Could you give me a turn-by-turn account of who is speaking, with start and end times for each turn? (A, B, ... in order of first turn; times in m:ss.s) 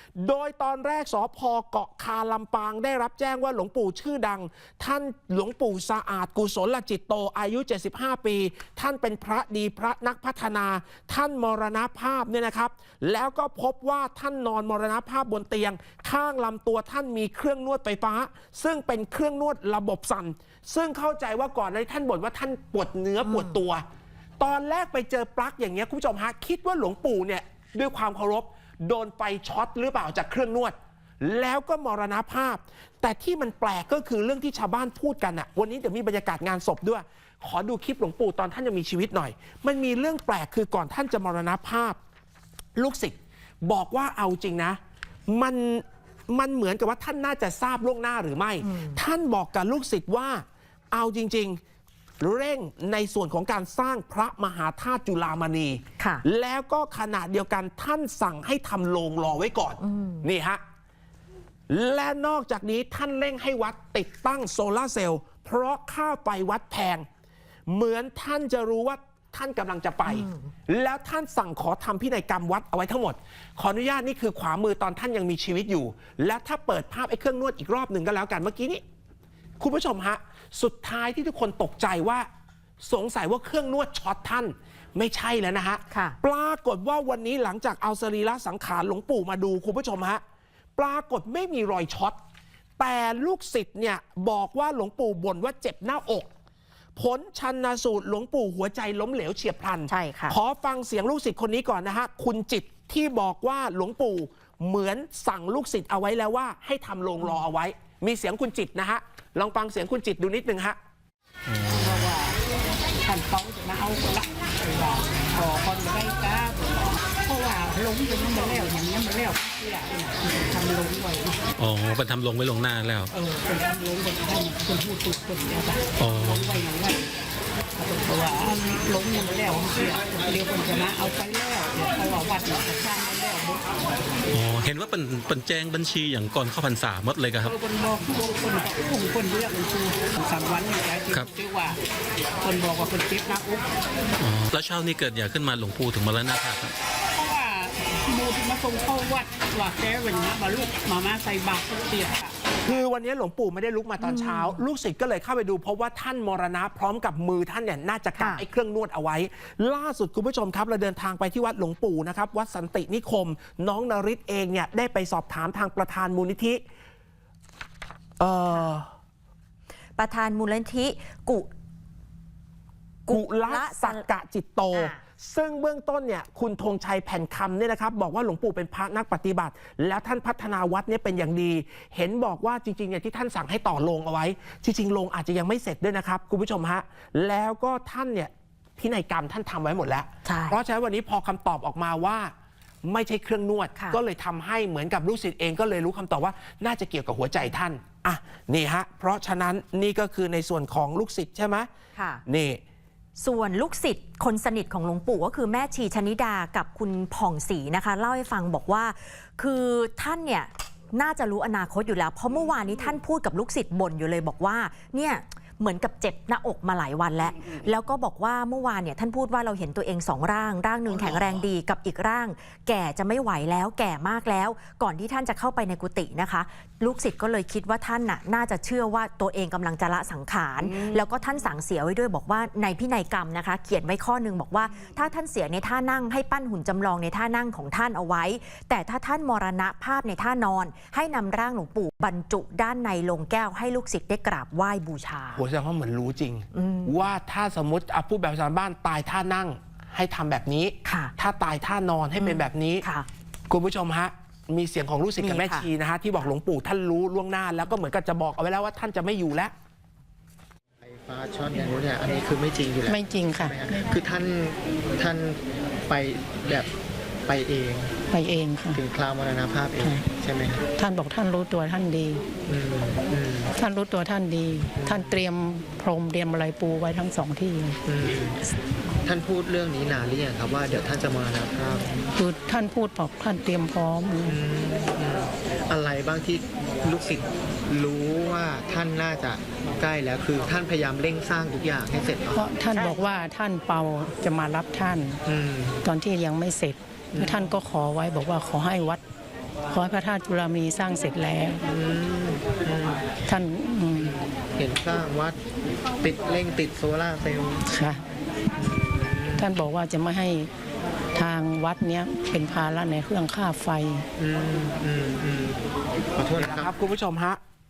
0:00.2-0:23.8 A
0:23.2-0:23.6 B
0:24.4-0:42.0 A
0:42.8-0:51.6 A
0:48.6-0:49.0 B
0:52.2-1:00.6 A
0:56.0-0:56.2 B
0:59.8-1:00.3 B
1:01.7-1:07.1 A
1:07.7-1:18.8 A
1:10.0-1:10.5 B
1:19.6-1:22.3 A
1:22.9-1:30.2 A
1:25.9-1:26.2 B
1:30.8-1:32.2 A
1:32.8-1:36.3 A
1:37.0-1:50.8 A
1:39.9-1:40.4 B
1:51.5-1:52.1 C
1:51.7-1:52.4 D
1:53.0-2:01.4 D
2:01.6-2:03.1 C
2:03.1-2:07.0 D
2:06.0-2:06.6 C
2:07.8-2:13.6 D
2:14.3-2:17.6 C
2:17.4-2:21.8 D
2:22.4-2:23.7 D
2:24.2-2:26.8 C
2:27.2-2:32.8 D
2:32.6-2:46.6 A
2:34.0-2:34.6 B
2:38.2-2:38.4 B
2:48.2-2:48.9 A
2:50.0-2:51.5 B
2:53.1-2:54.1 B
2:53.1-3:12.3 A
2:54.7-2:55.0 B
3:10.2-3:10.6 B
3:12.8-3:21.7 A
3:22.0-3:22.2 B
3:22.3-3:22.6 A
3:23.2-4:05.4 B
4:05.3-4:12.8 A
4:06.5-4:07.0 B
4:10.8-4:11.1 B
4:12.2-4:13.1 B
4:13.5-4:19.5 A
4:15.2-4:15.7 B
4:20.8-4:26.7 E
4:22.9-4:23.9 F
4:27.3-4:28.0 E
4:28.1-4:28.8 F
4:28.7-4:30.6 E
4:30.8-4:32.2 F
4:32.5-4:33.5 E
4:33.6-4:37.8 F
4:34.8-4:35.2 E
4:37.9-4:38.4 E
4:39.0-4:42.1 E
4:42.2-4:44.4 F
4:44.3-4:52.4 E
4:52.4-4:55.2 F
4:55.3-4:55.8 E
4:55.8-4:59.0 F
4:57.1-4:57.5 E
4:59.7-5:01.6 F
5:01.7-5:03.2 E
5:03.3-5:04.1 F
5:04.0-5:05.4 E
5:06.0-5:07.6 E
5:07.7-5:08.0 F
5:08.6-5:09.5 E
5:09.4-5:10.5 F
5:11.2-5:14.1 F
5:14.2-5:15.6 E
5:16.2-5:16.7 E
5:16.4-5:17.4 A